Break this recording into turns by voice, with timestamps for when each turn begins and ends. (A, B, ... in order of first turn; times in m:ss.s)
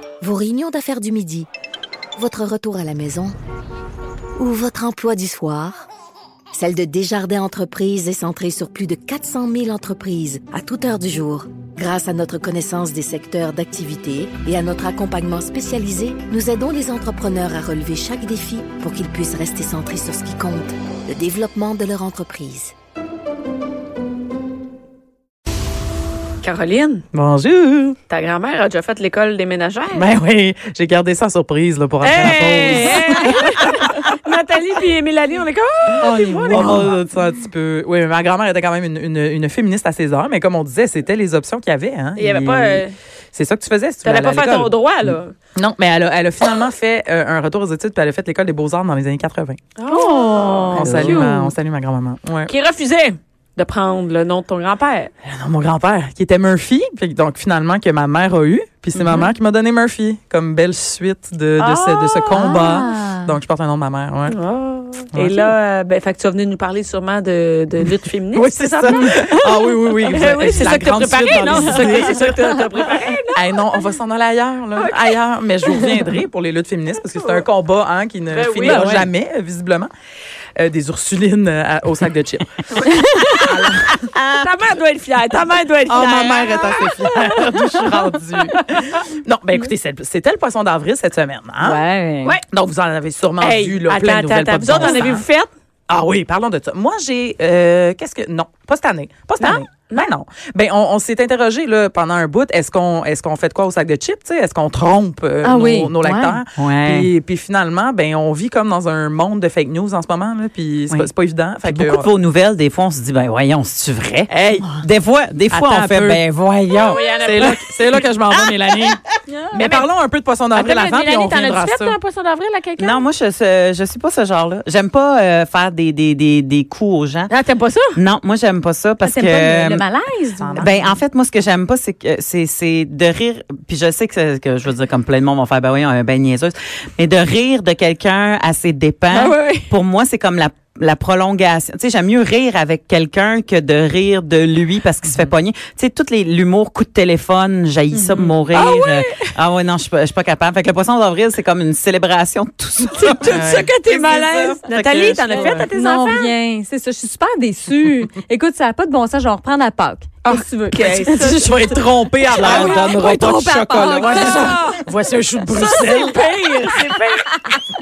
0:00.2-0:01.5 A
0:02.2-0:03.3 A
0:04.4-0:05.7 A
0:06.5-0:22.7 A
0:26.4-0:27.0 B
0:27.1-0:28.0 C
0:28.1-0:30.1 B
0:29.9-0:33.9 C
0:32.0-0:36.8 B
0:32.7-0:33.2 D
0:36.0-0:42.2 C
0:36.0-0:36.9 D
0:36.5-0:37.1 E
0:42.2-0:43.0 B
0:42.2-0:42.8 E
0:43.3-0:44.7 C
0:44.0-0:45.3 B
0:45.6-0:49.6 C
0:49.8-0:51.4 B
0:49.9-0:51.5 D
0:50.7-0:52.5 C
0:50.8-0:51.1 E
0:52.5-0:55.1 B
0:55.2-1:04.4 C
1:01.6-1:02.9 B
1:02.3-1:03.4 D
1:04.3-1:09.3 B
1:05.1-1:05.5 C
1:08.3-1:12.5 C
1:09.0-1:09.9 D
1:10.0-1:13.4 B
1:13.3-1:19.9 C
1:14.8-1:15.2 B
1:15.7-1:16.0 D
1:17.1-1:17.5 B
1:18.3-1:19.1 B
1:18.6-1:19.1 D
1:20.6-1:24.1 C
1:22.8-1:23.7 D
1:24.2-1:24.5 E
1:24.4-1:27.1 B
1:25.9-1:31.8 C
1:27.2-1:28.0 D
1:31.6-1:32.4 D
1:32.4-1:35.2 C
1:33.4-1:35.5 B
1:35.9-1:52.1 C
1:39.4-1:40.1 B
1:45.4-1:46.4 D
1:46.6-1:47.1 E
1:51.6-1:54.3 E
1:54.3-1:54.8 C
1:54.8-1:57.0 E
1:55.5-2:02.0 C
1:56.8-1:58.0 B
1:59.3-1:59.6 D
1:59.6-1:59.9 B
2:00.5-2:03.0 B
2:02.8-2:07.3 E
2:07.3-2:08.0 B
2:08.0-2:09.8 E
2:09.0-2:10.7 D
2:10.4-2:11.0 C
2:10.6-2:35.7 E
2:27.9-2:28.3 D
2:28.5-2:29.3 B
2:32.9-2:36.3 B
2:33.2-2:33.7 C
2:35.1-2:41.2 D
2:40.2-2:46.2 C
2:40.7-2:41.8 B
2:42.3-2:44.6 D
2:42.4-2:43.0 E
2:44.1-2:44.8 B
2:45.5-2:47.3 B